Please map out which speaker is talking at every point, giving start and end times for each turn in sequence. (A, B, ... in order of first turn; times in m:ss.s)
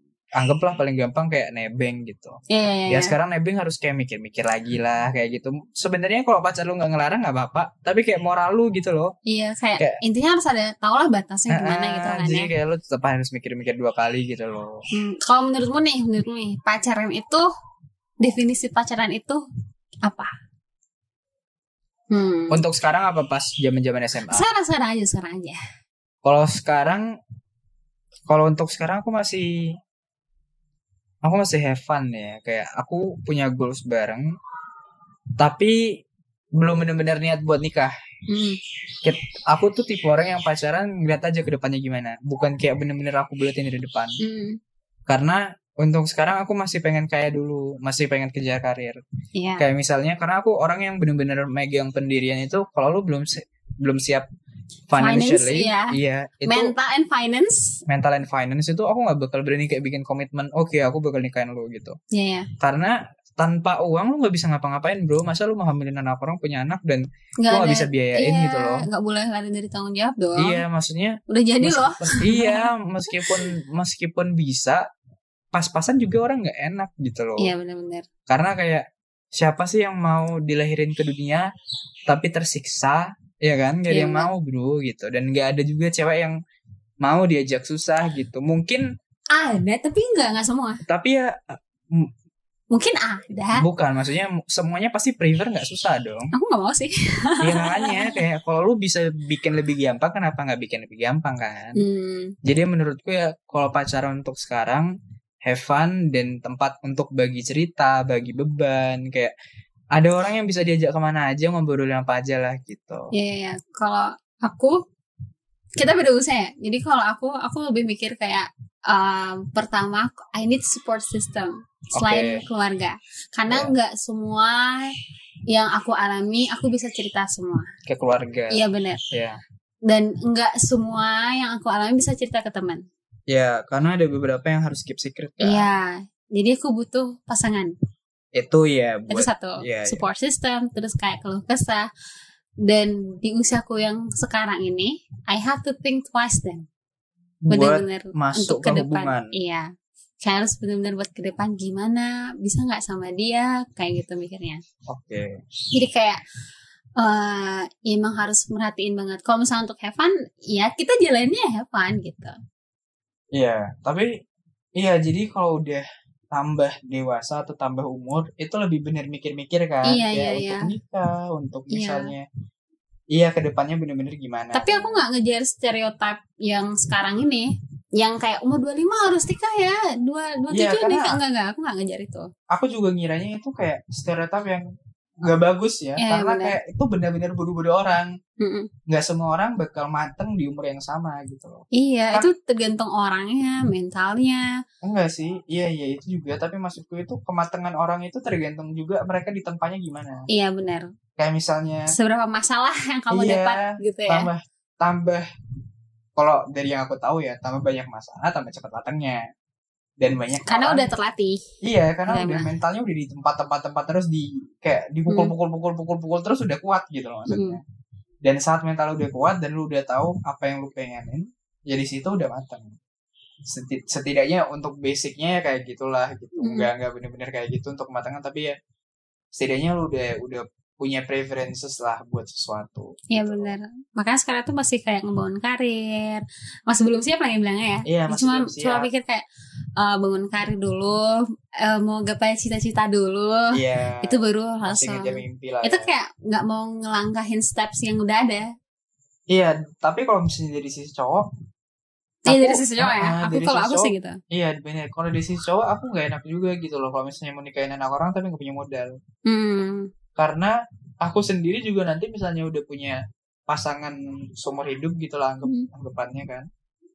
0:00.4-0:02.4 A
0:02.5-0:03.2 B
0:02.9-0:09.1 A
0:09.3-0:12.5 B
0:11.5-0:14.8 A
0:14.9-0:17.5 B
0:18.2-0:19.4 B
0:22.1-0:22.6 B
0:22.5-0:24.5 A
0:24.3-0:25.6 B
0:26.2-0:27.1 A
0:28.3-0:29.5 A
0:31.2-0:34.2 A
0:35.4-0:35.9 A
0:36.6-0:37.9 A
0:38.3-0:38.6 B
0:39.0-0:44.2 A
0:44.2-0:44.6 B
0:45.1-0:49.0 A
0:49.4-0:49.6 B
0:49.6-0:54.3 A
0:54.9-0:56.7 A
0:55.0-0:56.0 B
0:56.5-0:57.8 B
0:57.9-1:02.0 A
1:02.1-1:02.5 B
1:02.6-1:08.9 A
1:07.4-1:10.6 B
1:10.4-1:14.8 A
1:11.3-1:12.7 B
1:15.5-1:17.5 A
1:17.4-1:18.1 B
1:18.3-1:21.5 A
1:22.1-1:26.4 A
1:23.9-1:24.3 B
1:27.0-1:28.8 A
1:29.3-1:30.8 B
1:30.9-1:32.1 A
1:32.7-1:33.6 B
1:33.6-1:36.3 A
1:36.3-1:38.2 B
1:37.4-1:41.8 A
1:41.8-1:42.4 B
1:42.4-1:44.9 A
1:45.4-1:49.3 A
1:50.0-1:53.1 A
1:53.1-1:54.8 B
1:55.8-2:04.9 B
2:02.0-2:02.4 A
2:05.5-2:07.7 B
2:07.9-2:09.4 A
2:08.5-2:09.0 B
2:09.9-2:12.8 B
2:13.3-2:15.7 A
2:15.4-2:17.7 B
2:18.4-2:20.0 A
2:19.1-2:21.9 B
2:22.6-2:26.7 B
2:27.5-2:29.3 A
2:27.5-2:29.7 B
2:30.2-2:34.6 B
2:34.9-2:35.3 A
2:35.7-2:36.2 B
2:37.0-2:42.4 B
2:43.3-2:44.1 A
2:44.8-2:52.2 A
2:49.8-2:50.7 B
2:51.7-2:52.1 B
2:53.1-2:55.0 A
2:54.5-3:02.3 B
3:00.5-3:01.2 A
3:02.5-3:04.7 A
3:05.2-3:08.1 A
3:06.0-3:06.6 B
3:08.4-3:08.7 B
3:08.9-3:12.3 A
3:11.7-3:14.5 B
3:14.8-3:20.2 A
3:20.3-3:20.9 B
3:21.2-3:21.9 A
3:21.9-3:24.3 B
3:23.1-3:25.2 A
3:26.2-3:29.2 A
3:30.0-3:30.9 A
3:30.5-3:31.4 B
3:31.6-3:37.6 A
3:32.1-3:32.5 B
3:37.3-3:37.6 B
3:38.2-3:42.8 A
3:43.5-3:48.5 A
3:46.4-3:46.7 B
3:49.3-3:53.6 A
3:53.1-3:59.2 B
3:57.9-3:58.9 A
3:59.8-4:01.1 B
4:01.6-4:03.5 B
4:03.5-4:05.9 A
4:04.0-4:08.4 B
4:09.3-4:11.3 A
4:12.3-4:14.2 B
4:12.3-4:19.0 A
4:19.3-4:19.9 B
4:20.2-4:26.5 A